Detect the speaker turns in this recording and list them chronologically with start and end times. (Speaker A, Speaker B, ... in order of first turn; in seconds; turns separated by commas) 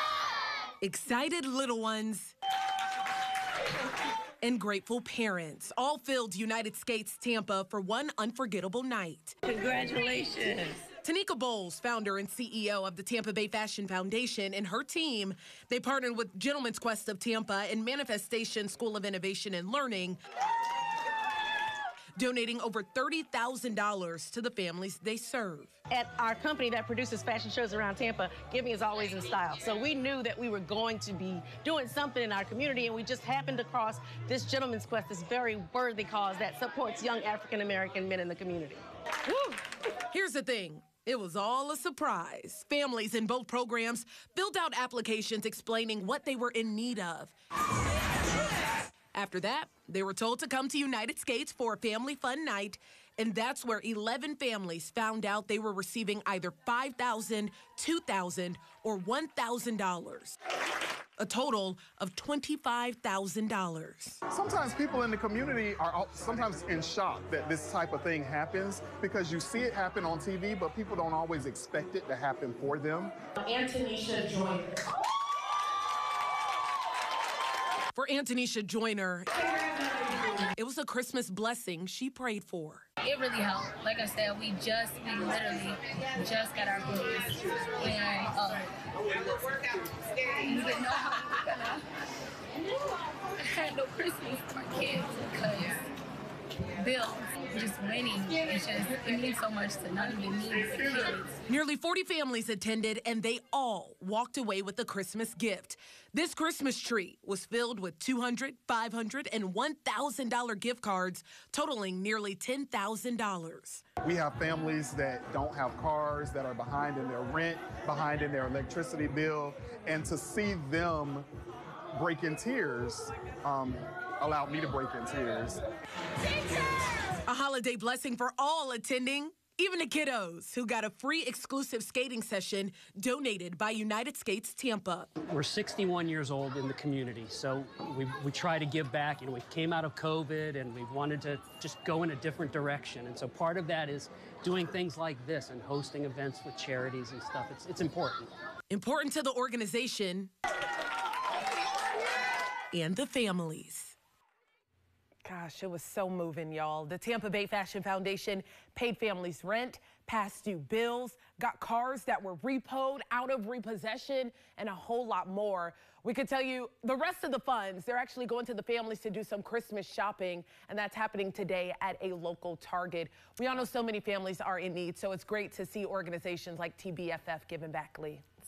Speaker A: 0.8-2.3, Speaker A: 4.4-9.4, Speaker B: 9.5-10.8, Speaker A: 11.0-20.2, Speaker A: 22.2-25.7, Speaker B: 25.9-38.8, Speaker A: 39.4-47.3, Speaker A: 49.0-60.4, Speaker A: 61.2-64.2, Speaker C: 64.3-73.1, Speaker A: 73.4-74.8, Speaker A: 77.9-82.8, Speaker D: 83.0-88.7, Speaker D: 90.4-91.8, Speaker D: 93.4-95.9, Speaker D: 96.8-101.4, Speaker A: 101.5-113.8, Speaker C: 114.0-121.3, Speaker C: 121.9-125.6, Speaker A: 127.2-135.1, Speaker E: 135.3-148.3, Speaker A: 148.7-150.3, Speaker A: 152.7-153.9, Speaker A: 155.2-178.2